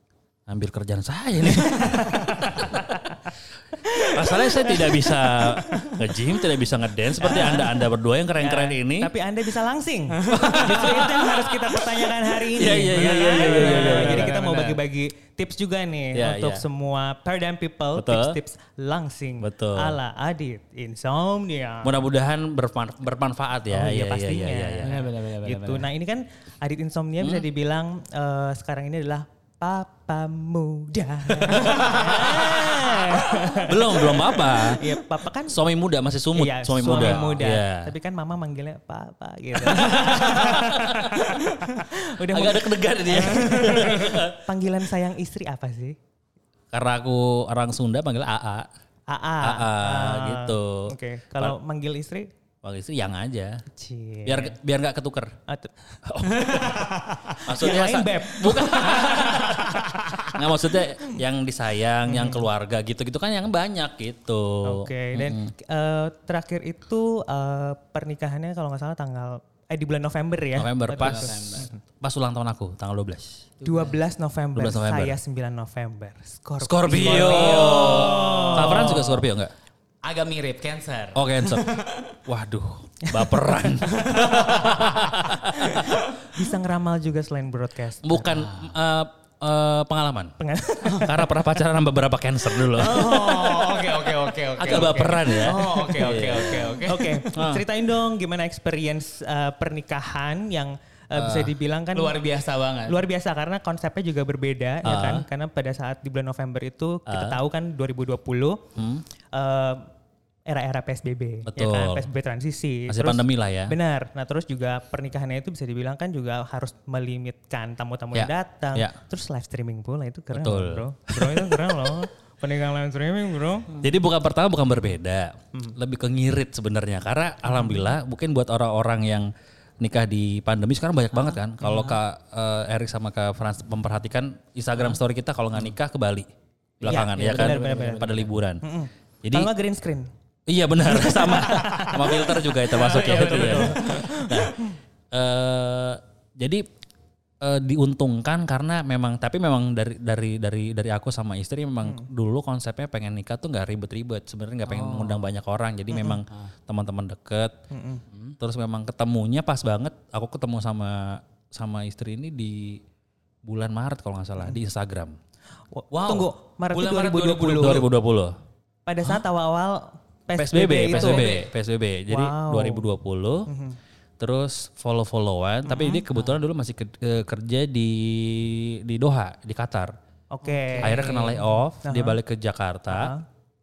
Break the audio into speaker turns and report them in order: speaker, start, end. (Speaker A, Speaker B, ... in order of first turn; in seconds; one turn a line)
Speaker A: 0.5-3.1
Speaker B: 1.6-5.6
Speaker A: 4.0-9.1
Speaker B: 7.2-7.9
Speaker B: 8.4-22.0
Speaker A: 10.3-14.7
Speaker C: 10.3-10.7
Speaker C: 13.2-14.8
Speaker A: 16.1-16.6
Speaker A: 17.9-18.4
Speaker A: 19.4-20.0
Speaker A: 21.8-25.0
Speaker B: 23.7-35.6
Speaker C: 24.8-25.9
Speaker A: 27.2-27.4
Speaker A: 31.5-37.9
Speaker B: 36.3-46.0
Speaker C: 37.0-37.3
Speaker A: 39.7-41.4
Speaker A: 42.0-44.4
Speaker A: 46.7-48.7
Speaker B: 49.1-52.3
Speaker A: 49.4-51.5
Speaker A: 52.6-53.6
Speaker B: 53.7-54.5
Speaker A: 54.2-55.3
Speaker B: 55.5-60.3
Speaker A: 56.0-65.5
Speaker C: 56.5-57.4
Speaker C: 58.5-59.5
Speaker B: 62.0-62.5
Speaker B: 64.6-71.8
Speaker A: 70.5-73.5
Speaker C: 70.9-71.7
Speaker C: 73.6-74.0
Speaker B: 73.6-79.2
Speaker A: 74.5-75.2
Speaker A: 76.6-79.5
Speaker C: 76.9-79.2
Speaker C: 80.0-82.1
Speaker A: 81.1-86.0
Speaker C: 83.9-84.8
Speaker B: 85.4-88.4
Speaker A: 88.0-93.2
Speaker C: 88.3-88.7
Speaker B: 90.4-91.3
Speaker B: 92.7-93.8
Speaker C: 92.7-97.3
Speaker A: 94.5-97.7
Speaker B: 96.8-102.2
Speaker A: 101.1-101.5
Speaker C: 101.9-103.0
Speaker B: 102.9-108.7
Speaker A: 104.8-105.2
Speaker A: 107.1-107.4
Speaker A: 108.8-109.0
Speaker B: 109.3-109.9
Speaker B: 110.5-123.7
Speaker A: 111.5-112.1
Speaker A: 112.9-113.7
Speaker A: 118.1-118.9
Speaker A: 120.3-122.1
Speaker A: 123.8-136.3
Speaker B: 127.4-127.9
Speaker C: 136.8-138.3
Speaker A: 136.8-138.6
Speaker B: 136.8-140.1
Speaker A: 139.2-139.5
Speaker A: 140.5-146.7
Speaker B: 140.9-144.7
Speaker C: 141.6-141.9
Speaker C: 142.6-144.2
Speaker A: 147.4-157.5
Speaker C: 154.7-155.3
Speaker B: 157.7-158.0
Speaker A: 158.4-162.8
Speaker A: 163.4-165.2
Speaker B: 165.7-167.9
Speaker C: 165.9-167.8
Speaker A: 167.6-168.3
Speaker B: 168.8-171.4
Speaker A: 170.3-173.5
Speaker C: 170.9-171.4
Speaker B: 172.1-172.8
Speaker B: 173.4-173.8
Speaker A: 174.2-179.9
Speaker B: 175.7-176.1
Speaker B: 180.3-182.2
Speaker C: 180.7-181.0
Speaker A: 180.8-183.1
Speaker B: 182.9-183.2